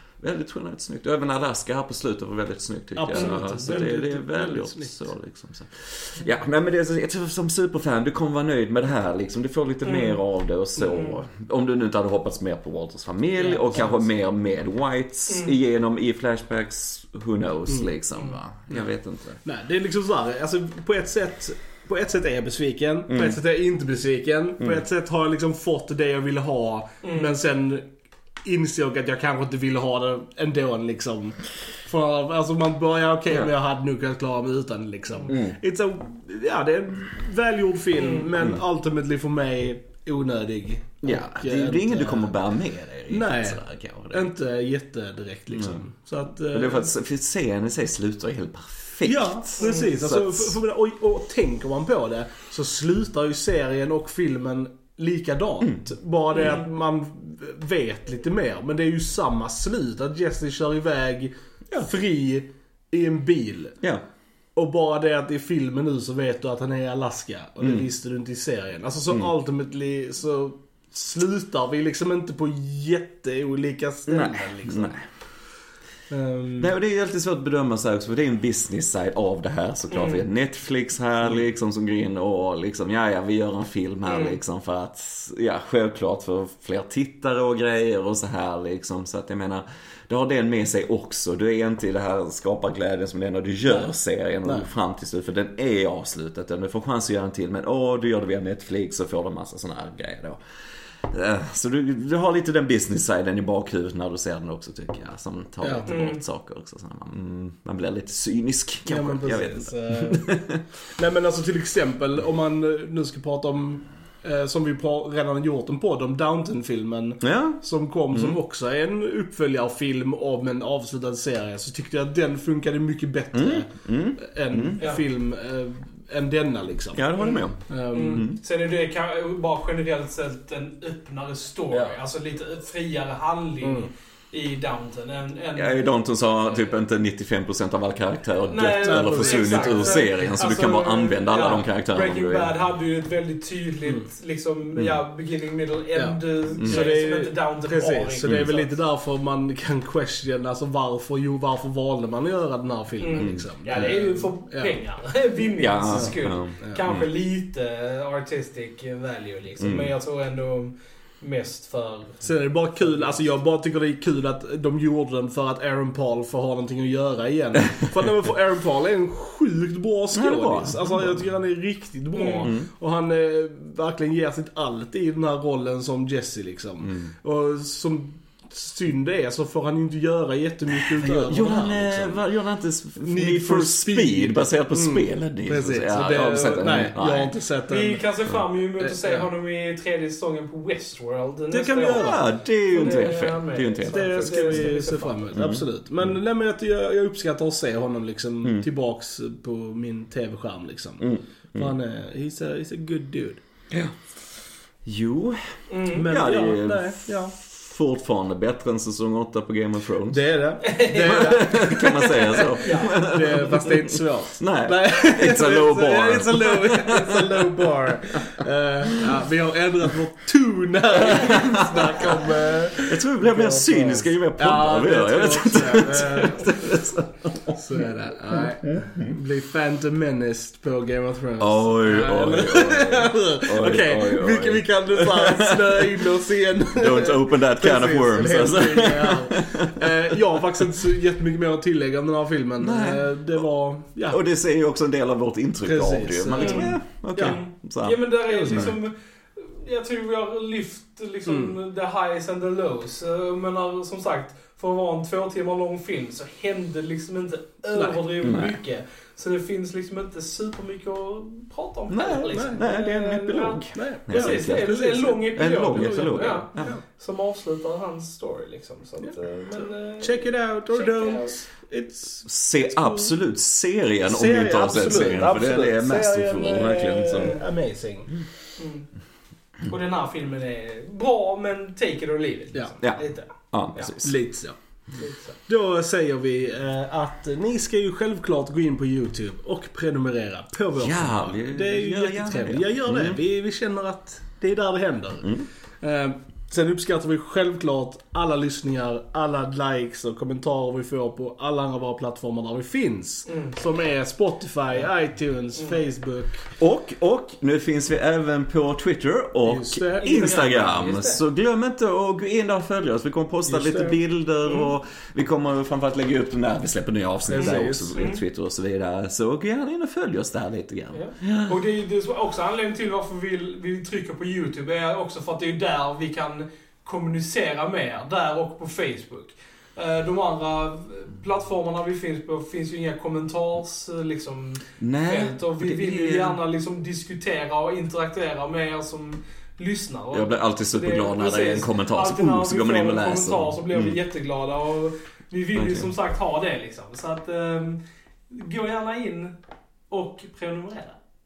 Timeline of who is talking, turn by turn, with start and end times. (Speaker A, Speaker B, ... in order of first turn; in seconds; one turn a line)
Speaker A: 0.2-19.4
Speaker B: 3.0-5.1
Speaker C: 9.8-10.2
Speaker C: 10.9-11.2
Speaker B: 13.4-14.0
Speaker C: 15.3-15.6
Speaker B: 17.7-17.9
Speaker C: 18.1-18.7
Speaker B: 19.4-27.8
Speaker A: 23.1-23.4
Speaker C: 27.0-27.4
Speaker B: 28.4-42.4
Speaker A: 35.3-35.6
Speaker C: 37.9-38.3
Speaker A: 41.0-44.3
Speaker B: 43.1-46.9
Speaker A: 45.5-45.8
Speaker A: 46.5-49.6
Speaker B: 49.0-63.8
Speaker C: 49.5-50.2
Speaker A: 50.2-50.6
Speaker A: 55.6-55.9
Speaker C: 56.3-56.7
Speaker B: 64.5-75.0
Speaker A: 67.6-67.9
Speaker A: 74.1-75.1
Speaker B: 76.1-76.7
Speaker A: 76.6-100.4
Speaker C: 79.9-80.3
Speaker C: 84.0-84.4
Speaker A: 101.1-110.6
Speaker B: 105.6-105.9
Speaker C: 105.9-106.2
Speaker B: 108.9-110.3
Speaker B: 110.9-127.0
Speaker A: 117.2-118.4
Speaker A: 123.3-124.8
Speaker C: 124.8-125.0
Speaker A: 126.9-128.4
Speaker C: 127.2-136.8
Speaker B: 127.7-128.2
Speaker A: 131.7-132.0
Speaker B: 133.6-133.9
Speaker A: 135.6-142.5
Speaker C: 138.5-148.8
Speaker B: 138.8-140.1
Speaker A: 144.8-145.0
Speaker B: 145.9-154.8
Speaker A: 146.6-146.9
Speaker A: 148.3-148.5
Speaker C: 153.0-163.4
Speaker A: 153.2-153.5
Speaker A: 155.6-157.1
Speaker B: 155.9-156.8
Speaker A: 159.6-159.9
Speaker B: 162.2-182.2
Speaker A: 170.1-171.3
Speaker C: 172.1-172.5
Speaker A: 172.4-172.7
Speaker A: 176.8-177.1
Speaker A: 180.7-187.3
Speaker B: 183.0-188.0
Speaker C: 187.7-195.4
Speaker B: 188.8-189.3
Speaker B: 191.5-192.2
Speaker A: 191.9-194.8
Speaker B: 193.9-203.4
Speaker A: 195.3-196.1
Speaker A: 201.0-201.8
Speaker A: 204.8-217.6
Speaker C: 205.7-206.1
Speaker B: 205.9-207.3
Speaker B: 210.1-226.6
Speaker C: 210.6-211.5
Speaker C: 212.6-213.6
Speaker A: 221.1-222.1
Speaker A: 222.8-229.0
Speaker B: 227.6-244.2
Speaker A: 231.4-236.0
Speaker A: 236.7-239.9
Speaker A: 242.6-243.4
Speaker A: 244.1-248.7
Speaker B: 245.6-247.4
Speaker C: 246.3-271.4
Speaker B: 248.3-248.8
Speaker B: 251.2-251.6
Speaker B: 257.7-258.0
Speaker A: 258.2-258.6
Speaker A: 261.9-266.7
Speaker B: 262.3-262.6
Speaker B: 263.7-266.8
Speaker B: 269.0-273.1
Speaker A: 272.2-277.3
Speaker B: 274.0-278.1
Speaker C: 277.1-277.5
Speaker C: 278.6-278.9
Speaker C: 279.6-284.0
Speaker A: 282.8-284.3
Speaker B: 284.0-284.6
Speaker C: 285.0-285.4
Speaker B: 285.4-306.4
Speaker A: 290.8-293.2
Speaker A: 295.2-295.5
Speaker C: 303.2-303.6
Speaker C: 305.5-305.8
Speaker A: 306.6-321.6
Speaker B: 309.4-311.2
Speaker C: 310.0-310.3
Speaker B: 313.5-314.0
Speaker C: 314.4-314.7
Speaker B: 317.3-317.9
Speaker C: 317.3-318.2
Speaker C: 320.9-349.4
Speaker A: 334.8-336.4
Speaker A: 340.1-344.0
Speaker A: 345.5-345.9
Speaker C: 349.9-351.0